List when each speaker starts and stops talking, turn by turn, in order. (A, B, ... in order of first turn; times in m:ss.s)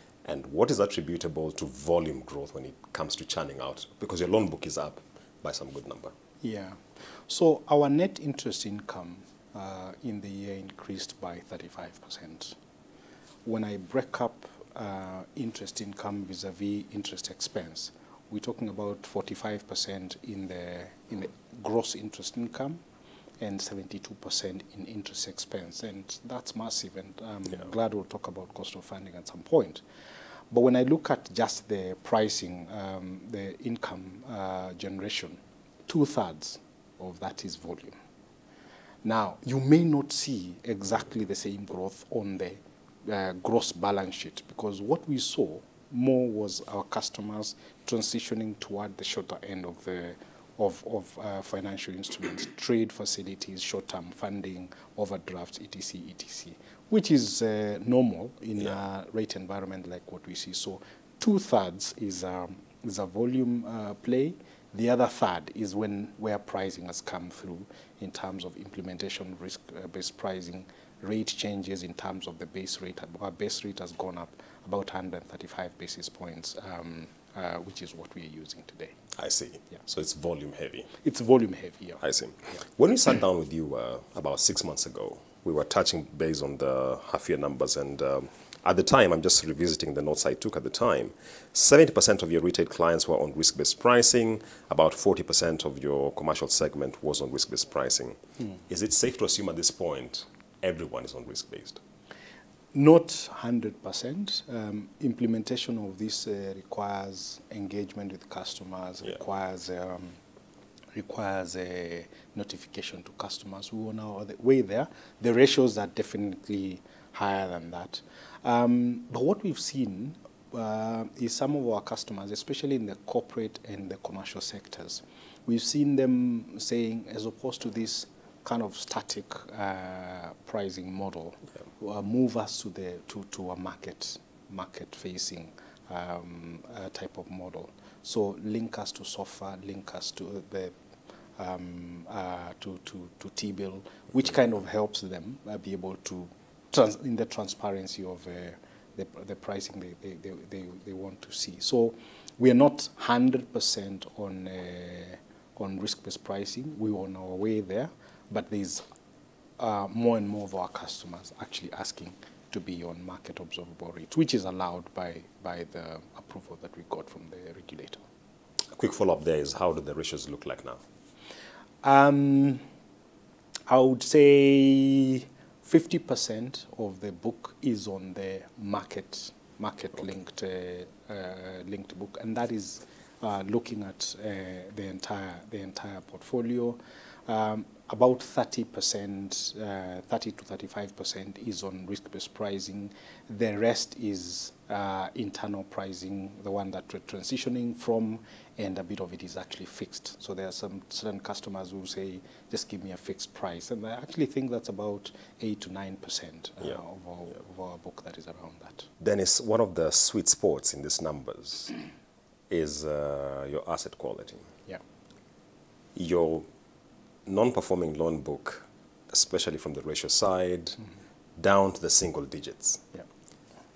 0:00.2-0:06.1 A
0:06.4-0:12.6 B
0:13.4-0:22.8 B
0:23.4-0:29.8 B
0:30.5-0:38.0 B
0:39.0-1:19.0 B
1:19.2-1:20.9 A
1:21.0-1:22.0 B
1:22.0-1:41.8 A
1:42.7-1:50.2 B
1:51.0-2:20.8 B
2:21.4-2:38.8 B
2:39.6-2:48.0 B
2:48.7-2:50.8 A
2:51.8-2:52.6 B
2:53.7-3:28.9 B
3:29.0-3:31.8 A
3:32.5-3:34.5 A
3:36.0-3:36.5 A
3:37.3-3:40.8 A
3:41.4-3:42.8 A